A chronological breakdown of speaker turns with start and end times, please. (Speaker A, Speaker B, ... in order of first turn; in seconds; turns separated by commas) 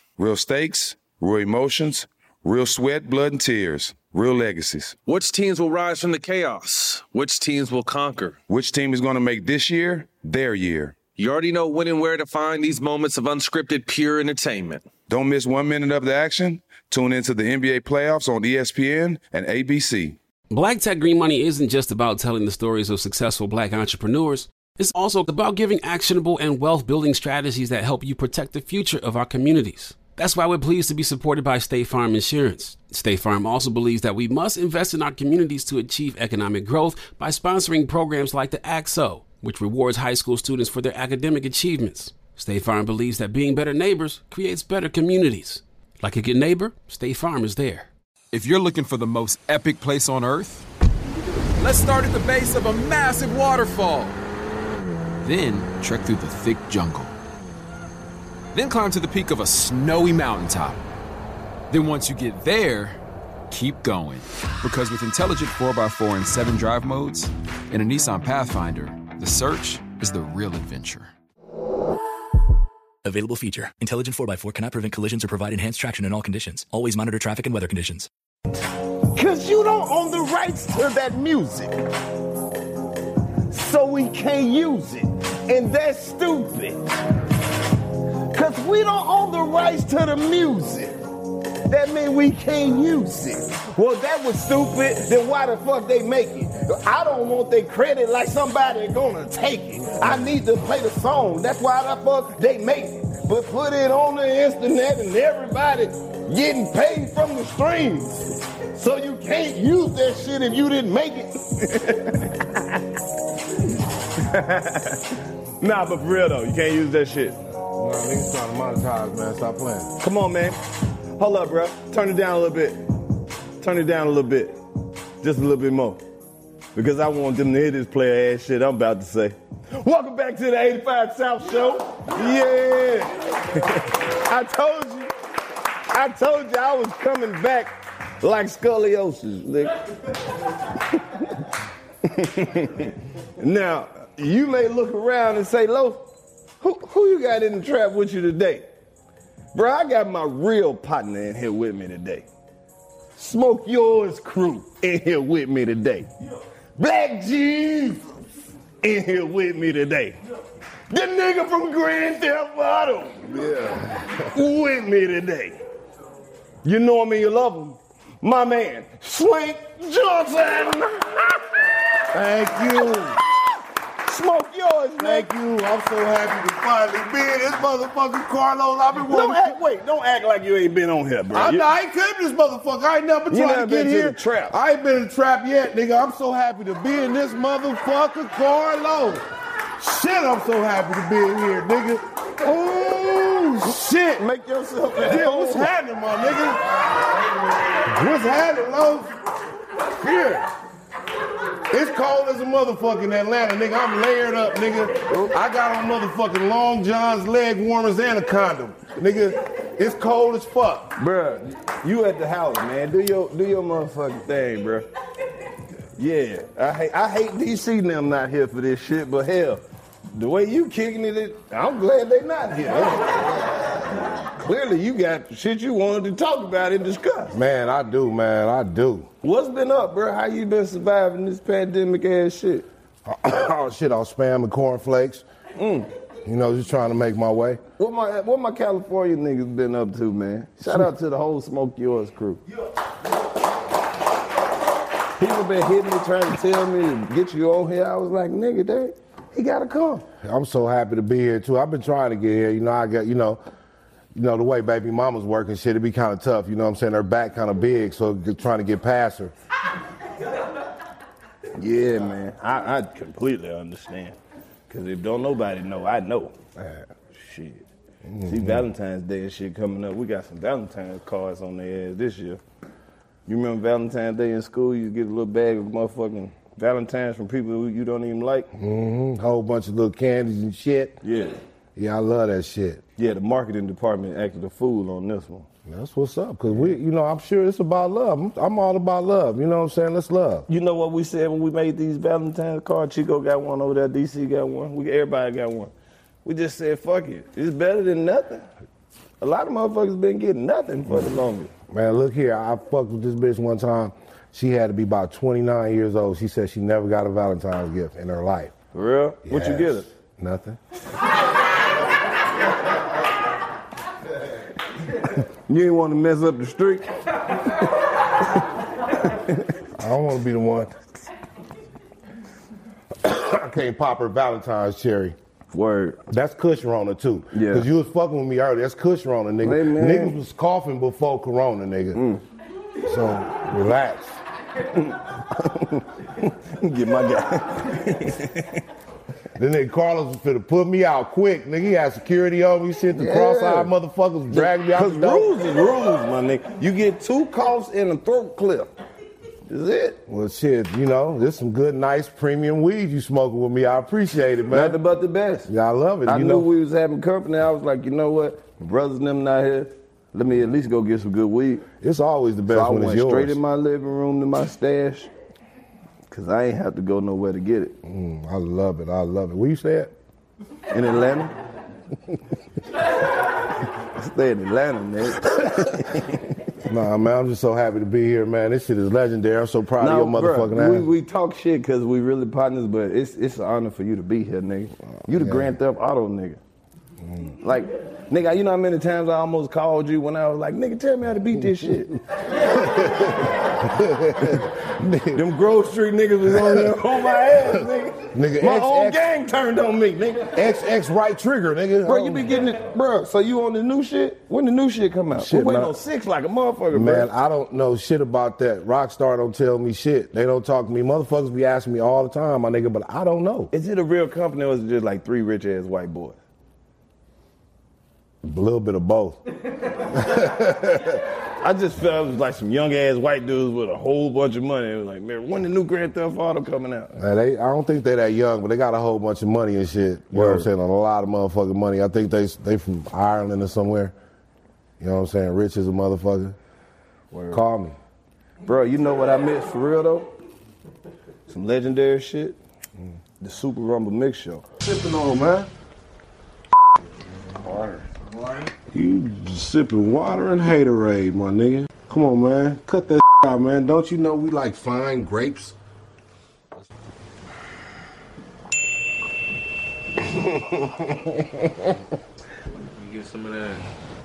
Speaker A: 0.2-5.0, Speaker B: 5.1-8.4, Speaker A: 8.5-11.0, Speaker B: 11.2-14.9, Speaker A: 15.1-20.2, Speaker C: 20.5-47.9, Speaker D: 48.3-50.7, Speaker D: 51.6-54.2, Speaker D: 55.2-57.1, Speaker D: 58.5-60.8, Speaker D: 61.7-71.1, Speaker E: 73.0-78.1, Speaker F: 79.1-81.7, Speaker F: 83.5-86.9, Speaker F: 88.3-91.0, Speaker F: 91.7-112.9, Speaker F: 114.1-117.4, Speaker G: 117.7-119.9, Speaker F: 120.0-120.6, Speaker F: 121.2-122.9, Speaker F: 123.6-124.6, Speaker F: 125.2-126.0, Speaker F: 126.8-135.1, Speaker F: 135.9-139.8, Speaker F: 140.7-141.4, Speaker F: 142.0-146.1, Speaker F: 146.6-148.7, Speaker F: 149.5-152.3, Speaker F: 153.2-156.1, Speaker F: 156.8-158.1, Speaker F: 158.8-160.2, Speaker F: 160.9-165.6, Speaker G: 163.4-164.2, Speaker F: 166.6-171.6, Speaker G: 172.1-173.2, Speaker F: 172.5-173.2, Speaker F: 174.1-175.3, Speaker G: 175.0-179.6, Speaker F: 179.1-181.7, Speaker G: 181.3-189.3, Speaker F: 183.3-184.6, Speaker G: 189.8-194.2, Speaker F: 192.5-195.7, Speaker G: 195.0-196.7, Speaker G: 197.8-199.1, Speaker G: 200.0-200.5, Speaker G: 201.7-210.9, Speaker F: 205.1-205.4, Speaker F: 211.0-214.9, Speaker F: 216.0-223.5, Speaker F: 224.2-227.4, Speaker G: 227.3-229.1, Speaker F: 229.2-232.7, Speaker G: 233.1-235.2, Speaker F: 235.6-235.9, Speaker G: 236.2-237.6, Speaker F: 237.8-242.4, Speaker F: 245.2-250.1, Speaker G: 250.2-253.4, Speaker G: 254.2-259.3, Speaker F: 261.6-264.2, Speaker F: 264.7-266.4, Speaker G: 266.6-266.8, Speaker F: 267.1-267.7, Speaker G: 268.1-268.6, Speaker F: 268.2-272.4, Speaker F: 273.3-278.5, Speaker G: 278.5-281.0, Speaker F: 281.0-281.4, Speaker G: 281.8-282.8, Speaker F: 283.0-285.5, Speaker G: 285.7-290.5, Speaker F: 290.5-295.7, Speaker F: 296.2-298.5, Speaker F: 299.2-301.5, Speaker G: 301.7-308.6, Speaker F: 308.7-309.9, Speaker G: 309.2-310.6, Speaker F: 315.5-316.9, Speaker G: 319.8-320.8, Speaker G: 323.0-325.2, Speaker F: 325.5-326.0, Speaker G: 326.1-332.0, Speaker F: 327.3-327.7, Speaker F: 329.4-330.2, Speaker F: 331.9-332.2, Speaker G: 332.9-334.2, Speaker F: 334.7-338.6, Speaker G: 339.4-345.3, Speaker F: 342.9-343.7, Speaker F: 344.3-348.7, Speaker F: 349.5-350.0, Speaker G: 350.1-354.8, Speaker F: 354.5-355.5, Speaker G: 355.5-356.5, Speaker F: 356.1-361.7, Speaker G: 361.8-363.4, Speaker F: 362.5-365.1, Speaker F: 366.1-367.8, Speaker G: 367.8-369.9, Speaker F: 370.7-371.4, Speaker F: 373.8-376.4, Speaker G: 376.7-380.9, Speaker F: 379.8-386.4, Speaker G: 385.1-385.5, Speaker F: 387.4-392.0, Speaker G: 392.3-395.2, Speaker F: 395.1-400.4, Speaker G: 396.4-396.8, Speaker G: 398.1-399.1, Speaker G: 400.3-402.3, Speaker F: 401.9-407.1, Speaker G: 405.1-405.8, Speaker G: 406.7-413.5, Speaker F: 413.5-416.2, Speaker G: 418.2-419.2, Speaker G: 419.9-421.0, Speaker F: 421.4-427.0, Speaker G: 427.0-433.9, Speaker F: 430.1-430.5, Speaker G: 434.8-436.4, Speaker F: 437.1-437.4, Speaker G: 437.3-437.8, Speaker F: 438.4-440.1, Speaker F: 441.3-442.4, Speaker F: 443.2-444.5, Speaker G: 444.6-445.5, Speaker F: 447.4-447.8, Speaker G: 448.6-455.6, Speaker G: 460.0-461.8